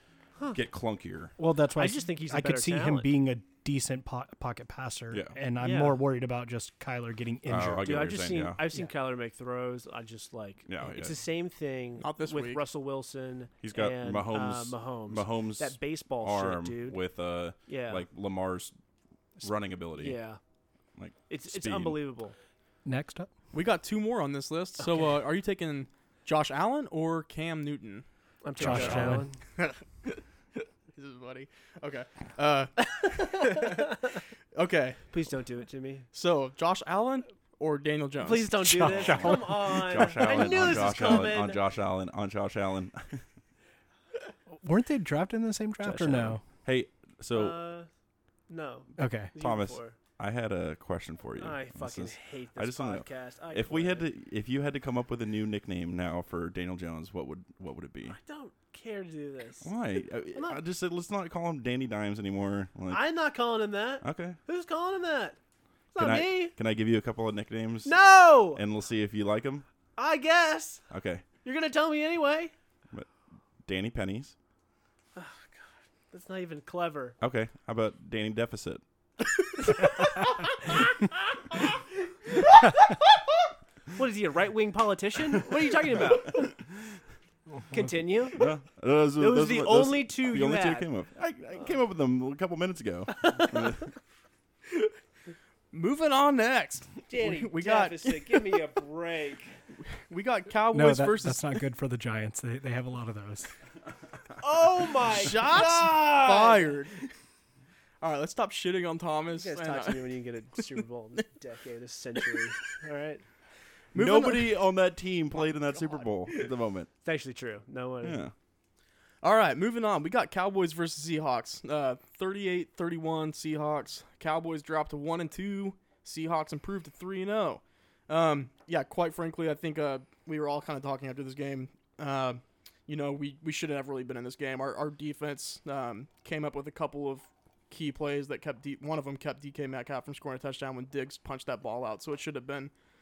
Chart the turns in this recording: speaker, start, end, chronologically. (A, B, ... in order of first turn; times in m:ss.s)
0:00.5-0:01.3 A
0:01.4-0:07.9 B
0:01.8-0:03.1 C
0:05.1-0:05.4 A
0:05.6-0:06.0 C
0:07.5-0:08.6 A
0:07.8-0:17.0 C
0:10.7-0:11.2 A
0:12.0-0:12.6 D
0:13.6-0:18.7 A
0:17.7-0:18.0 C
0:19.4-0:20.2 A
0:20.0-0:20.4 C
0:21.0-0:22.0 A
0:21.3-0:22.4 C
0:22.8-0:23.3 B
0:23.5-0:28.0 D
0:28.4-0:29.4 C
0:28.6-0:34.0 D
0:28.6-0:29.2 B
0:33.0-0:33.9 C
0:34.5-0:35.0 D
0:35.1-0:36.0 C
0:36.1-0:38.7 D
0:38.2-0:41.6 C
0:38.6-0:40.3 B
0:38.8-0:43.2 A
0:44.6-0:46.4 B
0:45.8-0:47.6 A
0:47.3-0:47.9 C
0:48.5-0:50.0 C
0:49.0-0:49.3 B
0:49.4-0:58.2 A
0:51.4-0:54.1 C
0:58.1-0:59.7 C
0:59.6-1:03.0 A
1:00.3-1:00.6 C
1:02.9-1:05.4 C
1:04.0-1:04.4 A
1:05.9-1:06.5 C
1:06.0-1:08.0 A
1:07.8-1:08.6 C
1:08.5-1:09.6 A
1:10.0-1:10.8 C
1:10.9-1:11.2 A
1:11.4-1:12.5 C
1:13.6-1:14.3 A
1:15.2-1:17.2 C
1:17.2-1:18.8 A
1:19.6-1:23.1 C
1:23.9-1:26.6 C
1:27.6-1:27.8 B
1:27.7-1:28.5 C
1:28.3-1:33.9 A
1:29.2-1:30.9 C
1:35.7-1:38.6 D
1:37.1-1:39.5 C
1:40.0-1:41.6 D
1:40.7-1:43.5 B
1:44.4-1:46.8 C
1:45.1-1:47.0 D
1:48.0-1:50.7 D
1:49.3-1:53.2 C
1:53.9-1:54.6 D
1:53.9-1:56.9 A
1:57.0-1:58.2 C
1:58.0-1:58.3 A
1:59.2-2:22.7 D